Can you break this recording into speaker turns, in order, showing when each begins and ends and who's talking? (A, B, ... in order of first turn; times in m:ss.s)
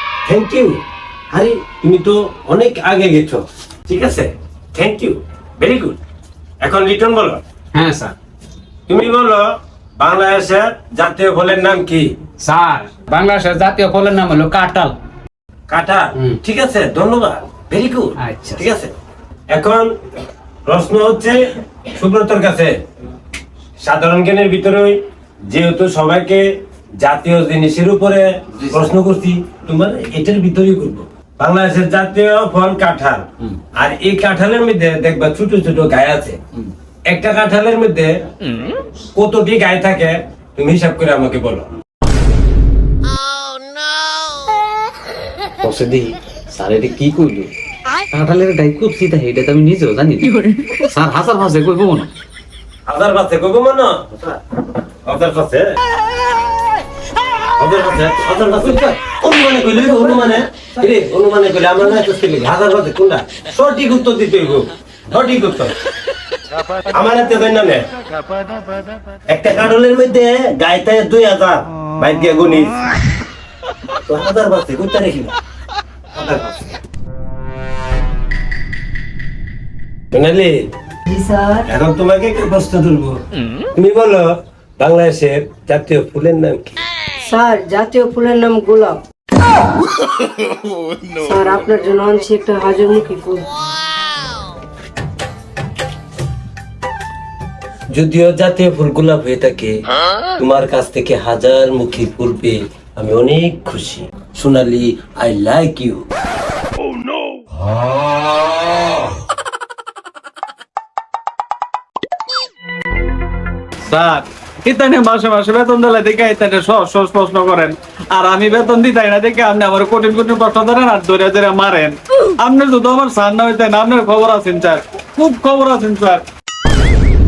0:00.2-0:06.0 A
0:06.6-0:07.4 A
0:07.7-0:08.1 B
0:08.9-0:12.1 A
0:12.4-0:15.0 B
0:15.7-0:18.9 A
0:18.2-0:18.6 B
0:19.5-0:19.9 A
0:20.6-0:22.7 A
0:23.8-0:26.5 A
0:27.0-0:36.4 A
0:37.1-0:38.2 A
0:39.1-0:41.7 A
0:45.6-0:47.5 C
0:48.1-0:52.1 C
0:52.9-0:54.4 A
0:55.0-0:55.7 A
0:57.6-1:05.7 A
1:06.8-1:07.9 A
1:09.3-1:12.8 A
1:14.0-1:15.4 A
1:16.1-1:16.7 A
1:20.1-1:20.6 A
1:21.1-1:21.7 D
1:21.6-1:23.2 A
1:23.7-1:24.2 A
1:24.8-1:26.8 A
1:27.2-1:29.0 D
1:31.2-1:33.5 D
1:37.9-1:39.8 A
1:40.4-1:46.1 A
1:53.9-2:06.2 E